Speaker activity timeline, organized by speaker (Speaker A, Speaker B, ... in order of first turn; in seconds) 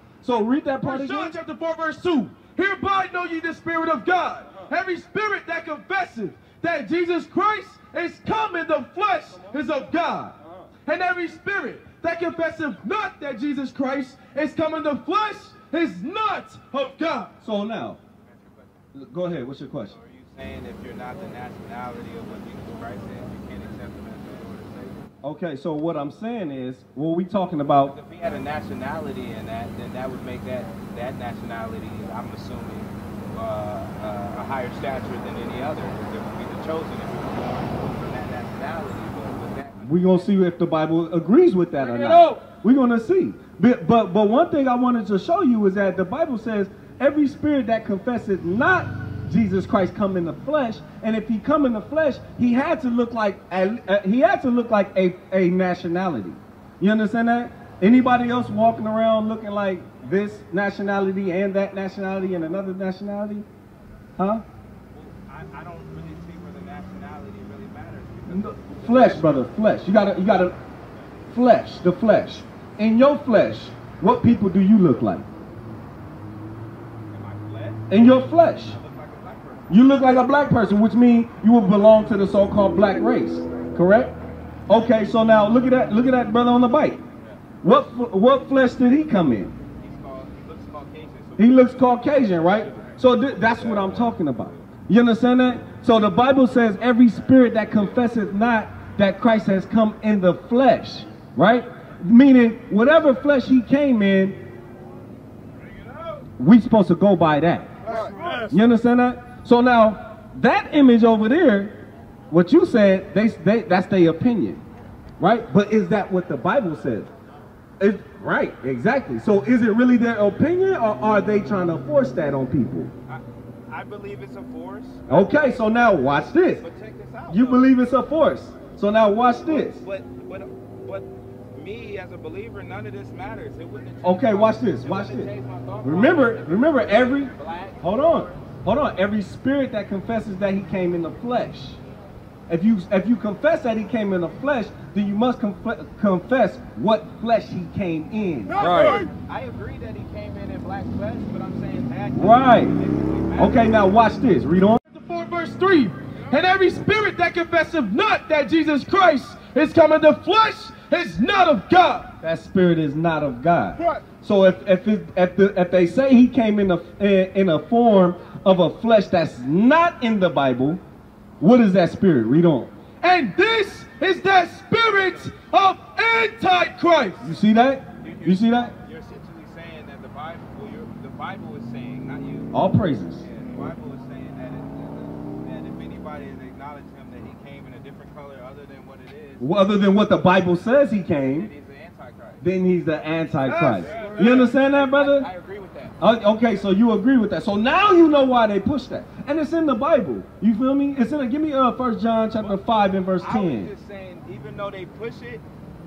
Speaker A: 0.2-1.3, 17.4-18.0, 18.9-19.9, 25.2-27.9, 39.8-63.5, 64.2-64.4, 68.3-70.5, 71.3-75.3, 77.9-78.8, 79.7-84.2, 84.7-87.0, 87.6-89.5, 91.4-104.4, 106.4-114.6, 115.2-117.1, 117.8-122.9, 125.1-126.6, 127.3-129.8, 134.0-135.3, 135.8-141.8, 142.5-149.1, 152.1-152.7, 153.3-154.8, 162.2-170.8, 171.4-172.7, 177.2-178.7, 182.5-183.2, 189.4-191.5, 192.4-195.3, 196.0-203.7
Speaker B: 0.8-10.3, 10.8-17.3, 41.9-42.4, 154.9-162.1, 173.0-177.2, 193.4-194.3
Speaker C: 18.2-18.7, 19.9-25.0, 27.9-40.3, 64.9-69.4, 77.1-79.7, 89.8-92.9, 107.9-108.3, 123.1-125.5, 126.6-127.7, 129.5-138.4, 148.6-153.7, 178.0-182.5, 183.2-189.7, 191.2-192.4, 193.8-196.0, 203.2-205.4